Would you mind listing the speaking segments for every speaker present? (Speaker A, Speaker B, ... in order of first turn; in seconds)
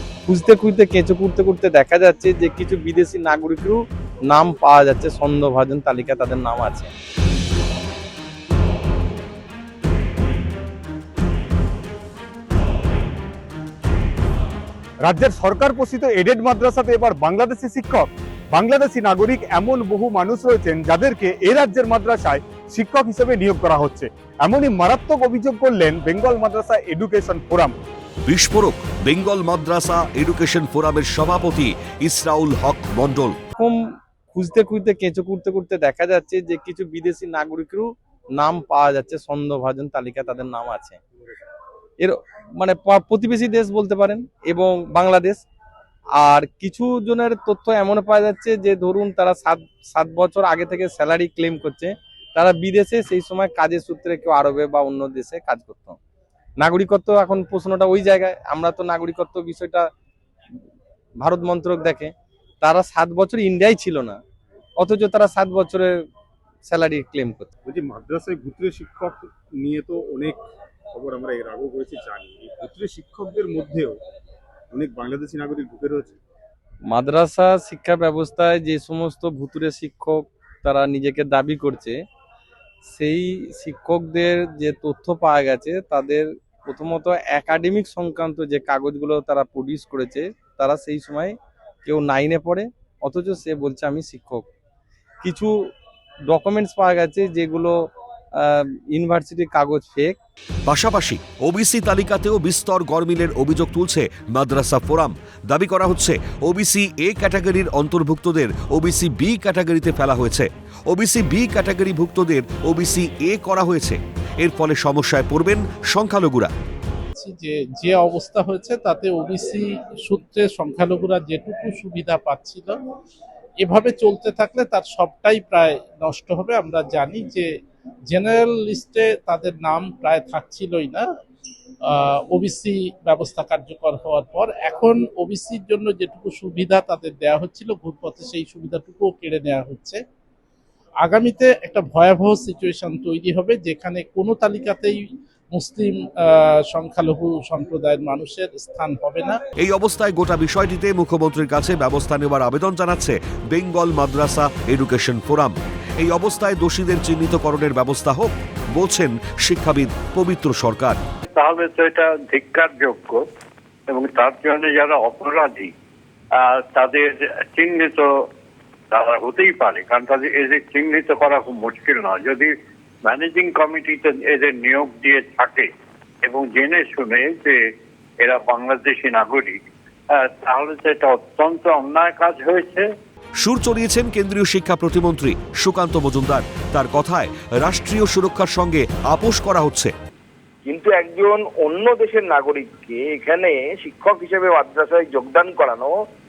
Speaker A: 0.3-6.9, 33.6-33.8, 34.3-41.0, 42.0-45.4, 46.2-56.0, 56.6-59.9, 61.2-62.1, 62.6-64.2, 64.8-66.0, 66.7-67.5, 76.9-82.0, 82.9-94.5, 95.2-95.6, 96.3-97.8, 98.4-100.2
Speaker B: 15.1-27.7, 67.7-70.4, 70.9-74.0, 74.7-76.1
Speaker C: 28.3-33.4, 100.7-116.5, 149.6-161.0, 183.4-189.9
Speaker D: 117.1-122.8, 123.6-127.5, 128.1-131.1, 131.8-140.0, 141.0-149.4
Speaker E: 161.3-163.2, 163.9-165.7, 166.4-168.3, 168.9-172.5, 173.0-175.7, 176.2-177.6, 178.2-179.6, 180.1-182.9
Speaker F: 190.7-195.9